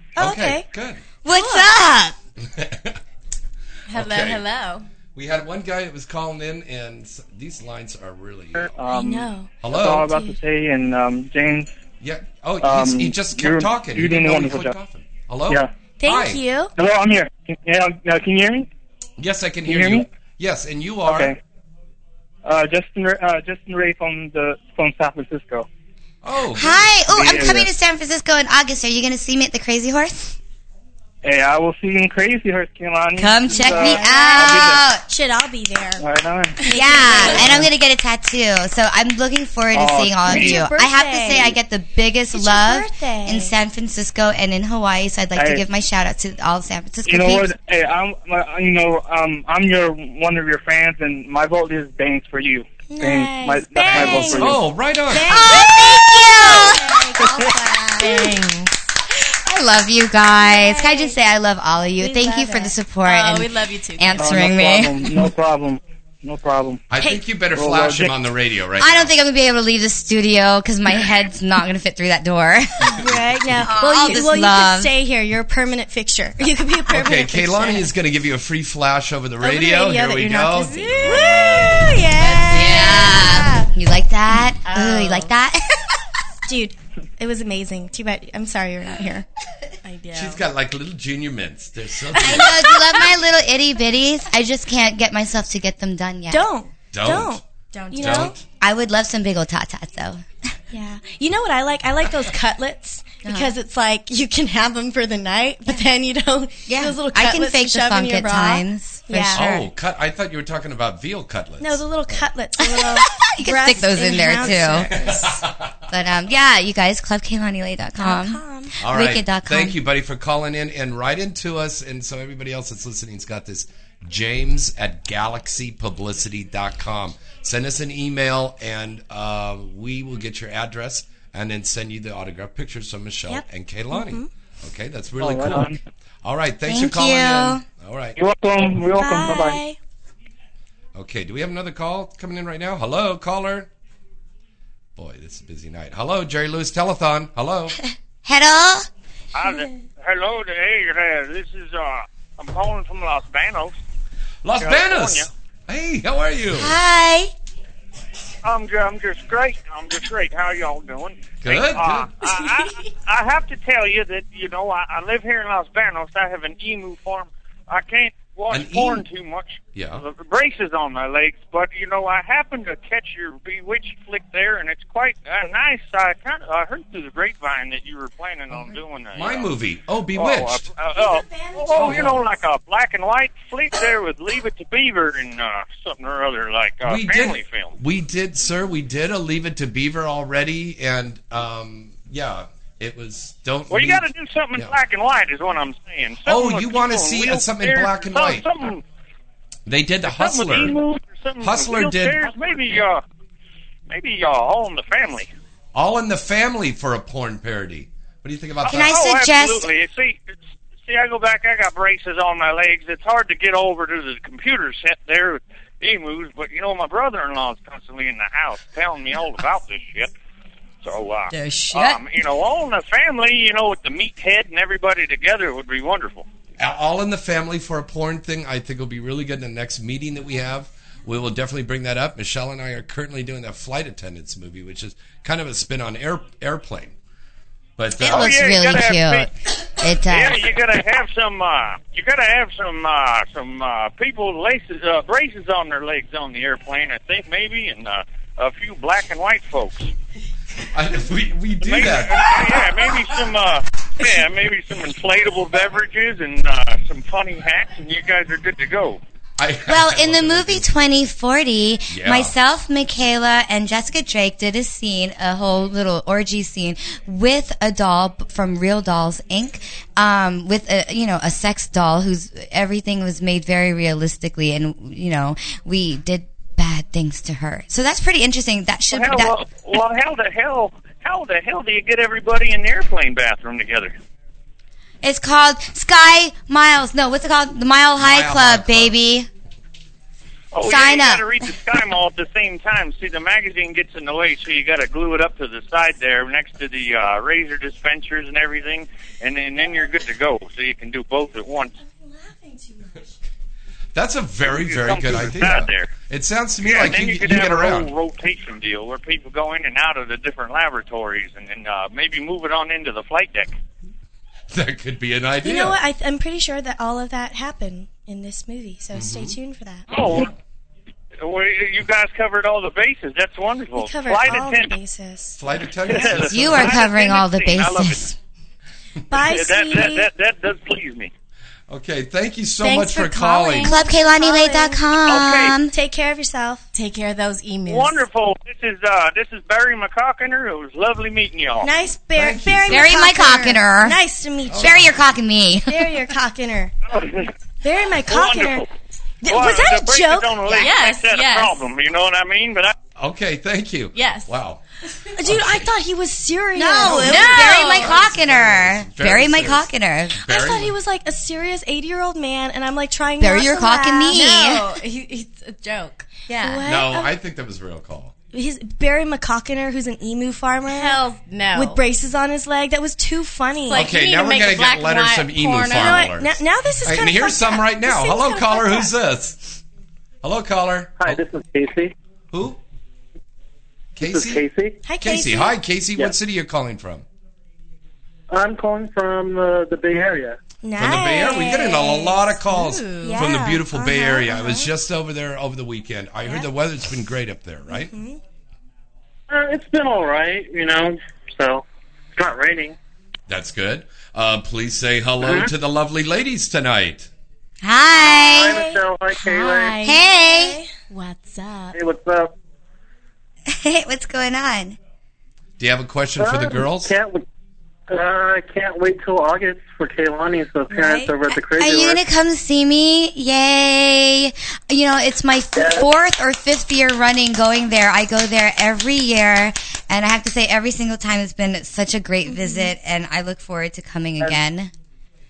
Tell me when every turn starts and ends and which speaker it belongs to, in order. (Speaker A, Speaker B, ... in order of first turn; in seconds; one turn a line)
Speaker A: 0.1-0.7
Speaker B: 0.2-1.0
Speaker C: 1.2-2.1
Speaker A: 1.3-1.8
Speaker B: 2.4-3.0
Speaker D: 3.9-4.9
Speaker B: 3.9-4.4
Speaker B: 5.1-8.7
Speaker E: 8.6-11.7
Speaker A: 8.8-10.4
Speaker B: 9.6-10.1
Speaker B: 12.0-16.4
Speaker E: 12.6-14.7
Speaker A: 16.0-16.7
Speaker E: 16.8-18.7
Speaker B: 19.2-21.3
Speaker E: 19.6-20.1
Speaker E: 21.1-21.4
Speaker E: 22.4-25.7
Speaker B: 26.2-26.9
Speaker C: 26.6-30.3
Speaker E: 27.1-27.7
Speaker E: 31.2-34.8
Speaker C: 33.2-35.0
Speaker A: 33.5-36.0
Speaker E: 36.0-36.6
Speaker A: 36.6-37.6
Speaker C: 36.7-47.5
Speaker D: 36.9-37.3
Speaker E: 37.4-37.7
Speaker E: 39.7-40.6
Speaker A: 40.2-41.6
Speaker A: 42.3-43.5
Speaker E: 45.4-45.6
Speaker E: 47.0-54.6
Speaker A: 52.9-58.4
Speaker B: 53.9-55.4
Speaker C: 55.3-56.8
Speaker D: 56.5-56.8
Speaker D: 58.0-58.7
Speaker C: 59.4-65.1
Speaker A: 60.4-61.1
Speaker A: 62.0-62.7
Speaker D: 63.0-64.3
Speaker E: 64.2-66.8
Speaker B: 66.9-69.1
Speaker E: 67.5-68.1
Speaker C: 68.8-73.0
Speaker A: 72.8-77.9
Speaker C: 73.6-74.9
Speaker B: 76.9-81.8
Speaker A: 79.4-83.7
Speaker D: 80.7-83.1
Speaker C: 82.5-85.8
Speaker D: 84.6-85.3
Speaker A: 86.5-89.2
Speaker D: 89.8-90.4
Speaker B: 90.1-92.6
Speaker C: 92.2-96.5
Speaker A: 96.3-98.3
Speaker B: 96.9-98.4
Speaker D: 97.7-98.3
Speaker C: 98.6-100.2
Speaker A: 100.7-109.4
Speaker C: 103.2-103.5
Speaker C: 106.7-109.7
Speaker B: 109.3-112.3
Speaker A: 111.6-115.3
Speaker C: 112.6-115.0
Speaker B: 114.6-115.7
Speaker C: 115.9-119.8
Speaker A: 118.0-118.7
Speaker B: 118.8-138.2
Speaker A: 133.3-134.3
Speaker E: 135.2-135.8
Speaker C: 136.7-137.6
Speaker E: 138.2-139.6
Speaker A: 138.9-139.8
Speaker B: 140.9-143.7
Speaker B: 144.9-147.8
Speaker C: 148.2-148.9
Speaker F: 149.3-153.8
Speaker B: 154.4-156.8
Speaker F: 154.6-155.3
Speaker C: 156.5-157.3
Speaker F: 158.4-179.5
Speaker B: 161.4-162.1
Speaker B: 168.5-169.0
Speaker B: 169.7-170.0
Speaker B: 179.1-180.7
Speaker F: 180.1-187.8
Speaker A: 180.9-182.2
Speaker B: 181.8-182.2
Speaker B: 186.8-194.0
Speaker F: 193.7-198.8
Speaker B: 196.2-198.5
Speaker B: 199.7-200.8
Speaker F: 200.0-203.0
Speaker B: 201.4-202.2
Speaker F: 203.9-205.3
Speaker B: 205.7-209.0
Speaker F: 208.6-220.1
Speaker C: 208.7-209.7
Speaker F: 220.8-226.2
Speaker C: 221.3-222.0
Speaker B: 226.6-236.9
Speaker B: 237.8-238.4
Speaker F: 238.0-239.3
Speaker C: 238.0-240.4
Speaker F: 240.0-249.9
Speaker B: 250.7-252.6
Speaker F: 251.6-259.0
Speaker B: 259.4-260.7
Speaker C: 259.7-279.3
Speaker B: 261.9-262.3
Speaker F: 278.9-283.9
Speaker C: 285.0-289.3
Speaker B: 288.0-289.0
Speaker F: 290.5-301.7
Speaker C: 290.6-291.3
Speaker A: 301.8-303.1
Speaker B: 303.9-307.9
Speaker F: 304.4-305.9
Speaker F: 306.6-313.5
Speaker B: 314.5-315.8
Speaker A: 315.4-319.9
Speaker B: 318.9-319.4
Speaker F: 319.9-320.3
Speaker F: 321.2-324.8
Speaker A: 323.7-326.2
Speaker B: 325.4-326.8
Speaker F: 325.9-328.1
Speaker C: 326.2-328.1
Speaker A: 329.1-330.1
Speaker F: 329.1-331.1
Speaker B: 331.7-333.8
Speaker D: 332.6-333.8
Speaker C: 333.6-335.7
Speaker A: 333.8-334.8
Speaker F: 335.1-335.6
Speaker A: 335.7-336.7
Speaker D: 336.7-338.0
Speaker F: 337.6-341.7
Speaker A: 341.6-344.9
Speaker B: 342.1-343.0
Speaker C: 342.7-344.0
Speaker B: 344.5-344.9
Speaker C: 344.5-345.8
Speaker A: 345.7-346.8
Speaker F: 346.9-347.3
Speaker A: 347.6-348.7
Speaker F: 348.1-348.7
Speaker A: 349.2-350.8
Speaker F: 349.2-352.7
Speaker D: 350.5-351.6
Speaker B: 352.9-354.6
Speaker D: 353.9-354.3
Speaker A: 355.1-357.6
Speaker B: 355.2-355.7
Speaker C: 356.5-360.2
Speaker D: 356.8-358.0
Speaker B: 356.9-360.8
Speaker A: 360.2-364.2
Speaker C: 363.2-364.7
Speaker D: 364.1-366.6
Speaker A: 366.4-367.1
Speaker B: 366.6-368.1
Speaker A: 368.3-373.9
Speaker D: 370.6-371.8
Speaker D: 373.6-376.1
Speaker B: 373.7-379.6
Speaker A: 375.7-378.9
Speaker B: 380.2-381.2
Speaker G: 381.0-381.9
Speaker B: 382.3-382.6
Speaker B: 383.9-384.4
Speaker G: 384.0-384.8
Speaker A: 384.8-385.6
Speaker B: 385.0-387.1
Speaker G: 388.3-390.4
Speaker A: 390.6-392.3
Speaker B: 390.8-397.9
Speaker D: 392.5-393.3
Speaker A: 393.0-394.7
Speaker A: 397.7-398.2
Speaker G: 399.3-401.6
Speaker G: 402.1-402.8
Speaker B: 403.3-407.1
Speaker G: 405.2-405.5
Speaker C: 407.6-408.6
Speaker A: 408.0-408.8
Speaker G: 408.3-409.8
Speaker D: 409.1-410.0
Speaker A: 409.8-410.7
Speaker C: 409.8-410.6
Speaker D: 410.9-411.8
Speaker G: 411.7-412.3
Speaker C: 413.5-414.8
Speaker B: 415.6-416.9
Speaker G: 416.2-417.2
Speaker G: 417.9-422.0
Speaker A: 420.7-421.0
Speaker C: 421.4-434.7
Speaker G: 425.5-425.9
Speaker A: 432.3-432.7